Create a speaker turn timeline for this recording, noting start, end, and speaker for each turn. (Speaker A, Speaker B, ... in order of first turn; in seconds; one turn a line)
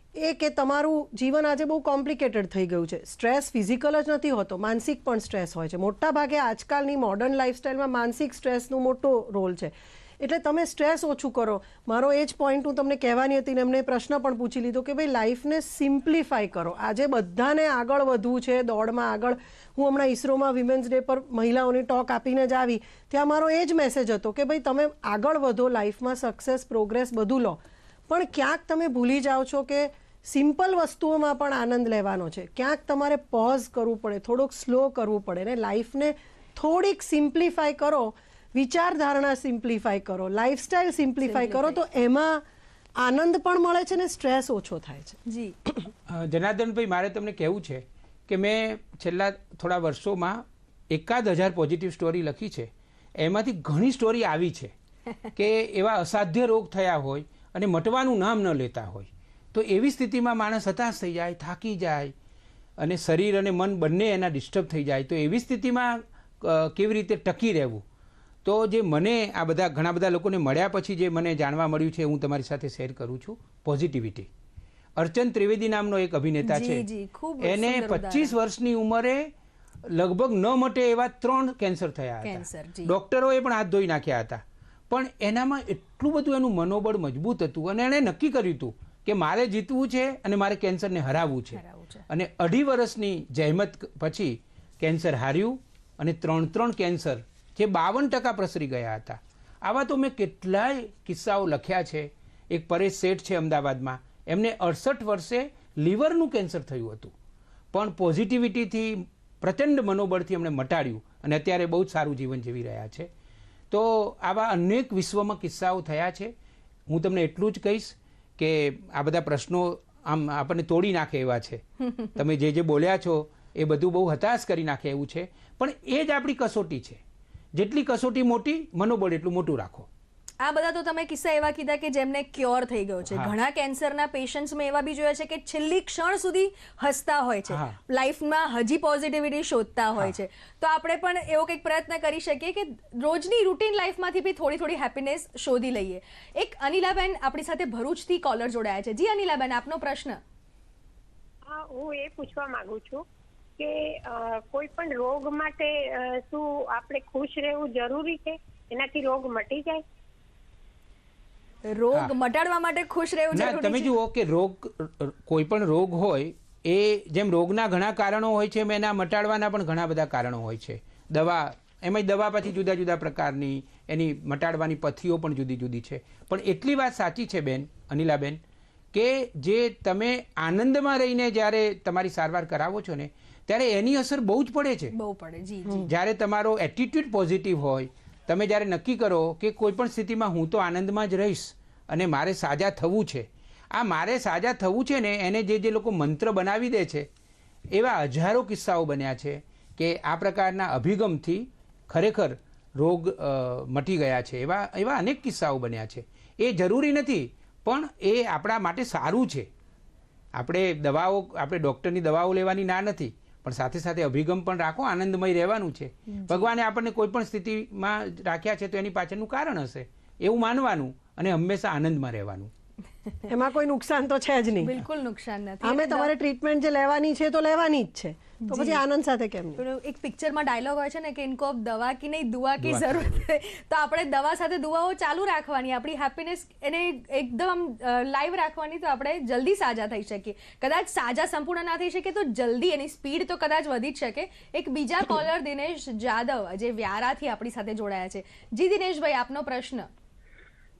Speaker A: 0.1-42.4
Speaker B: 41.2-41.8
Speaker A: 43.0-45.9
Speaker B: 45.3-45.5
Speaker C: 46.1-54.7
Speaker C: 55.3-62.1
Speaker C: 62.8-67.8
Speaker C: 68.4-74.3
Speaker C: 75.0-76.8
Speaker B: 76.4-78.3
Speaker C: 77.4-79.3
Speaker C: 79.8-107.1
Speaker B: 82.2-82.9
Speaker B: 91.5-92.0
Speaker C: 107.7-113.1
Speaker C: 113.7-116.3
Speaker C: 116.9-121.6
Speaker B: 121.9-122.1
Speaker C: 122.2-127.0
Speaker C: 127.5-129.9
Speaker B: 130.4-150.2
Speaker C: 137.5-137.8
Speaker D: 151.5-153.0
Speaker D: 153.6-159.8
Speaker B: 161.7-163.9
Speaker C: 163.3-178.4
Speaker C: 178.9-184.9
Speaker B: 184.9-185.8
Speaker C: 185.8-197.1
Speaker C: 197.7-209.5
Speaker C: 210.3-222.5
Speaker B: 216.1-216.5
Speaker A: 223.3-224.7
Speaker B: 224.6-226.1
Speaker A: 225.6-229.6
Speaker B: 228.4-228.8
Speaker B: 229.6-249.9
Speaker C: 232.6-233.2